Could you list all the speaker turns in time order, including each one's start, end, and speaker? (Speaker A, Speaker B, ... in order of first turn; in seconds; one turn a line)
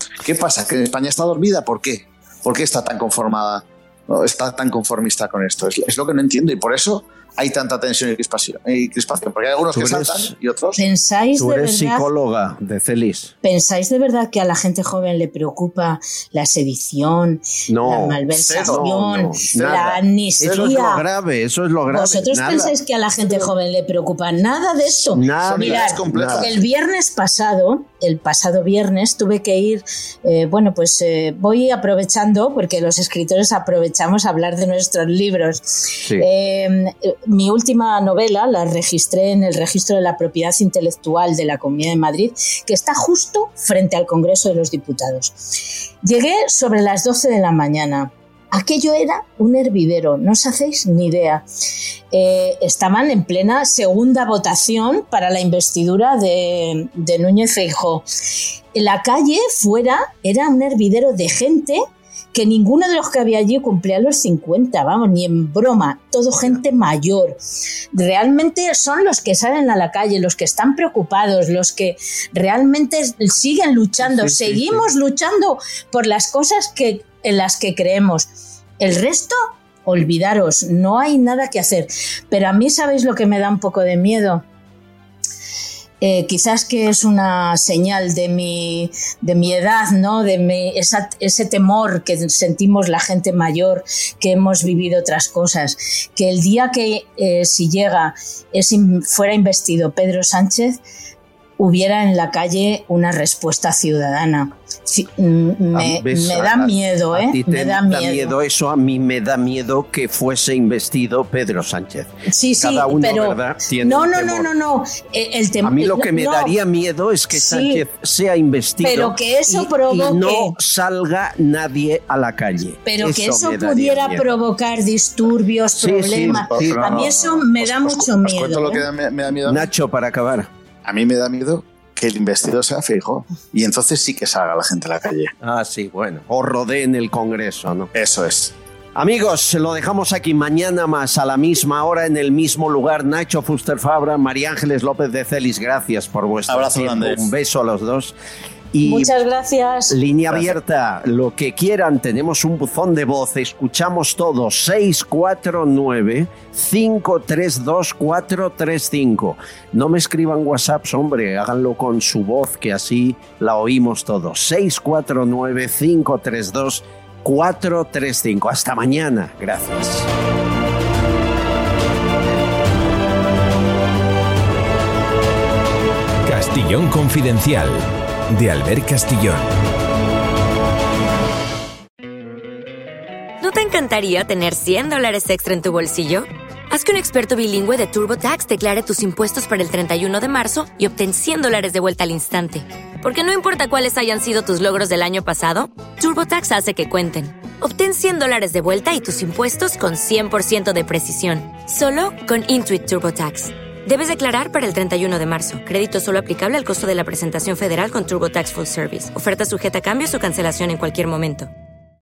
Speaker A: 0.2-10.8
Speaker B: 9.7-10.3
Speaker C: 10.8-12.1
Speaker B: 11.4-13.3
Speaker C: 13.4-21.0
Speaker B: 17.7-22.7
Speaker A: 18.4-18.8
Speaker C: 21.9-45.4
Speaker B: 25.1-26.5
Speaker A: 25.4-26.6
Speaker C: 46.0-51.5
Speaker C: 52.1-58.0
Speaker C: 58.7-61.8
Speaker C: 62.3-67.4
Speaker C: 67.9-78.3
Speaker B: 74.0-74.8
Speaker C: 78.8-84.4
Speaker C: 86.0-100.8
Speaker C: 101.6-108.3
Speaker B: 105.7-114.5
Speaker C: 112.3-116.6
Speaker B: 115.6-124.3
Speaker C: 117.3-117.8
Speaker C: 118.8-120.5
Speaker C: 122.8-128.8
Speaker B: 125.8-127.1
Speaker A: 126.2-129.7
Speaker B: 129.4-130.5
Speaker A: 130.8-135.3
Speaker B: 135.4-137.9
Speaker A: 137.9-138.5
Speaker B: 138.9-148.1
Speaker A: 146.5-147.2
Speaker B: 148.7-149.1
Speaker C: 148.8-149.9
Speaker B: 149.9-170.1
Speaker A: 150.3-150.6
Speaker D: 176.2-179.5
Speaker E: 183.4-211.5